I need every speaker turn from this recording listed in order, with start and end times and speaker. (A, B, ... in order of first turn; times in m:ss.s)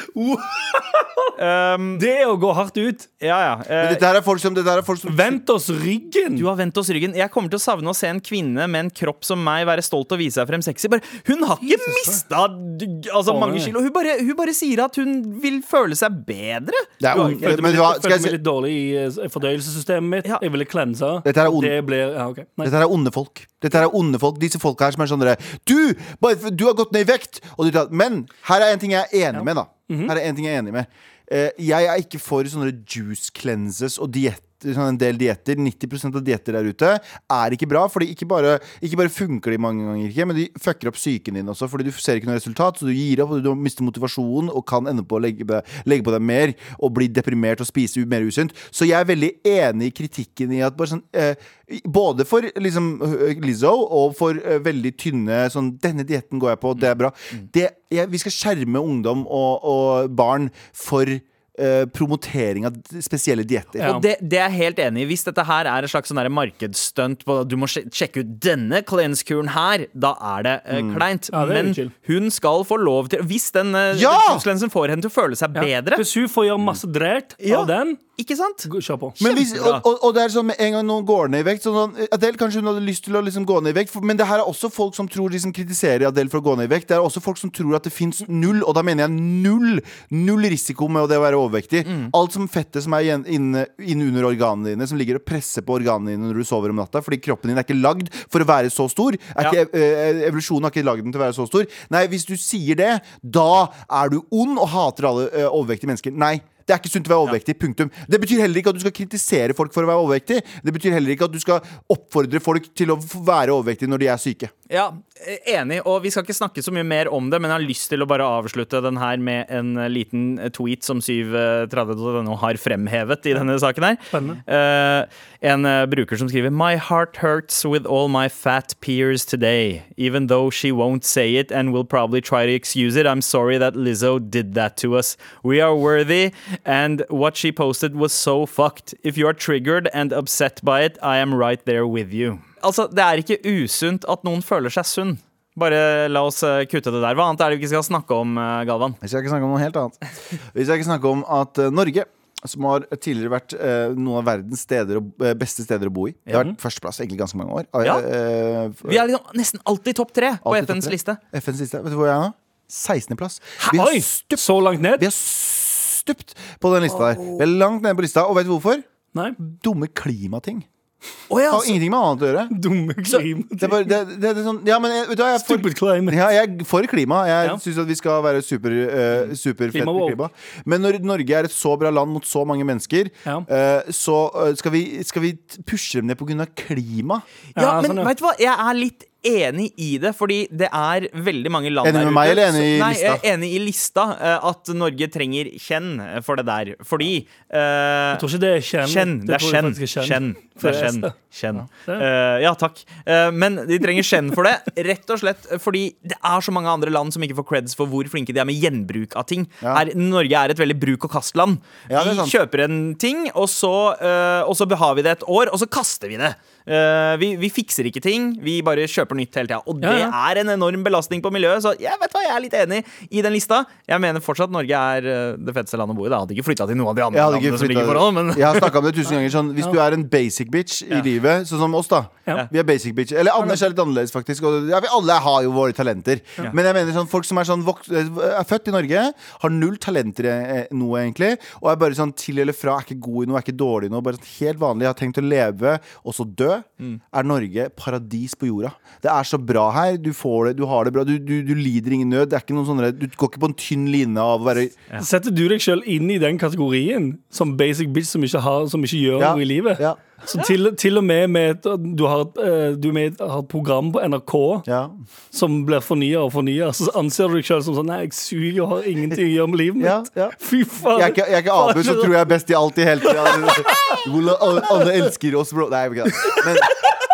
0:00.1-0:01.3 A
0:01.4-0:02.0 B
0:02.0-0:03.1 A
0:03.2-0:04.0 B
0:03.8-0:05.4 C
0:05.1-0:06.4 A
0:06.3-0:17.6 B
0:11.6-0:12.2 A
0:13.3-0:13.7 A
0:17.0-0:18.4 C
0:17.1-0:22.7 A
0:21.2-0:21.8 C
0:22.6-1:03.9 C
0:29.3-0:30.1 A
1:03.8-1:16.0 B
1:10.7-1:11.0 C
1:11.3-1:11.9 A
1:13.9-1:14.4 C
1:15.5-1:18.0 A
1:17.4-1:18.7 B
1:18.6-1:19.2 A
1:19.2-1:54.5 C
1:19.2-1:19.8 B
1:31.8-1:32.1 B
1:54.7-2:29.0 B
2:04.1-2:04.4 A
2:29.0-2:39.0 C
2:38.8-2:41.2 B
2:40.4-2:44.4 C
2:43.6-2:45.0 A
2:45.0-2:48.8 C
2:47.1-2:47.4 B
2:49.4-2:50.6 C
2:51.3-2:51.8 B
2:51.5-2:52.5 C
2:52.5-2:53.9 A
2:53.6-3:07.2 C
2:55.4-2:56.2 A
2:59.7-3:00.2 A
3:07.6-3:08.1 A
3:07.6-3:18.2 B
3:11.8-3:13.2 C
3:18.1-3:21.1 A
3:18.8-3:48.7 B
3:31.9-3:32.4 C
3:39.8-3:40.1 A
3:47.1-4:14.8 C
4:15.0-4:24.6 A
4:19.2-4:20.0 C
4:24.6-4:24.9 C
4:25.3-4:32.1 A
4:29.8-4:36.8 C
4:33.0-4:34.0 A
4:34.7-4:35.0 A
4:36.1-4:36.9 A